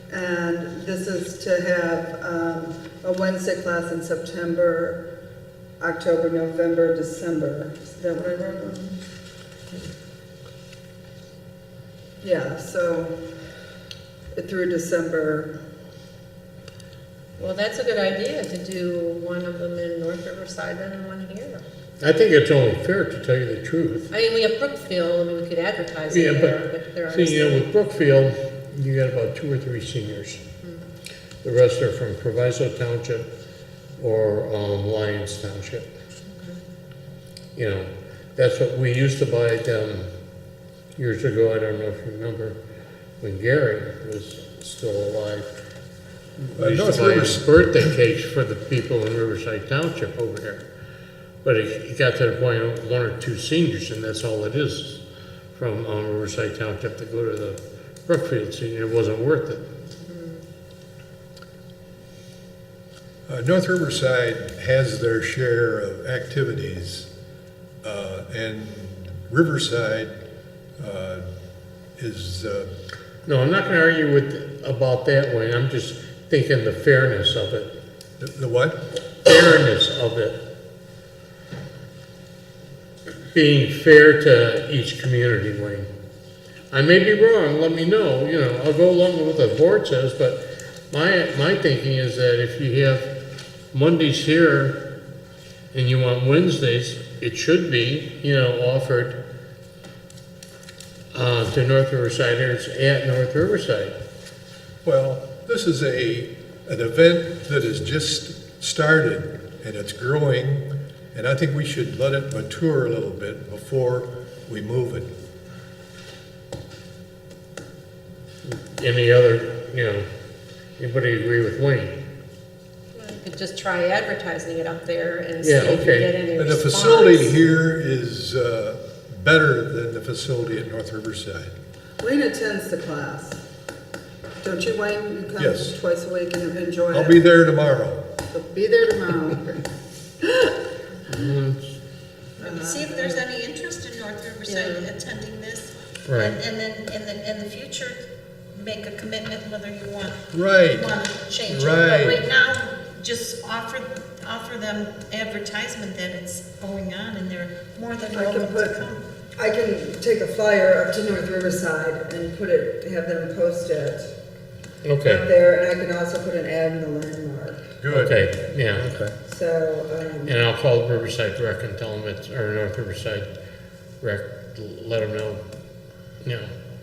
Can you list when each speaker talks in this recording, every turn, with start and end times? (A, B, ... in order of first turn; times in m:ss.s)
0:00.1-0:05.1 A
0:05.8-0:09.0 A
0:12.2-0:13.2 A
0:14.3-0:15.6 A
0:17.4-0:21.6 B
0:22.0-0:24.1 C
0:24.1-0:27.7 B
0:26.1-0:30.4 C
0:31.4-0:33.3 C
0:34.0-0:35.9 C
0:37.6-0:40.1 C
0:41.0-0:42.6 C
0:43.2-0:45.5 C
0:46.4-0:50.7 C
0:46.6-0:47.5 D
0:51.4-0:55.0 C
0:55.5-0:59.7 C
1:00.1-1:00.4 B
1:03.3-1:07.1 D
1:07.8-1:10.2 D
1:10.8-1:11.2 D
1:12.0-1:12.7 D
1:13.3-1:17.8 C
1:18.2-1:18.8 D
1:19.2-1:20.4 C
1:23.3-1:25.9 C
1:26.7-1:33.2 C
1:33.7-1:34.8 C
1:35.7-1:39.2 C
1:41.1-1:44.0 C
1:44.8-1:55.1 D
1:58.4-2:00.1 C
2:00.8-2:02.0 C
2:02.9-2:07.4 B
2:05.4-2:06.1 C
2:06.4-2:11.5 D
2:12.0-2:13.4 A
2:14.4-2:17.3 A
2:15.4-2:15.7 D
2:16.9-2:18.0 D
2:18.3-2:19.6 A
2:20.2-2:20.5 A
2:21.1-2:21.7 C
2:22.4-2:23.2 A
2:22.4-2:28.0 E
2:24.4-2:24.9 B
2:26.1-2:26.4 C
2:28.5-2:39.0 E
2:30.3-2:30.9 D
2:31.4-2:32.2 D
2:38.1-2:38.8 A
2:39.4-2:44.1 A
2:44.8-2:45.3 C
2:45.0-2:47.7 A
2:47.8-2:48.2 D
2:47.9-2:48.9 C
2:48.8-2:49.1 D
2:49.2-2:50.4 A
2:50.3-2:53.3 C
2:54.0-2:55.4 C
2:56.2-2:56.5 C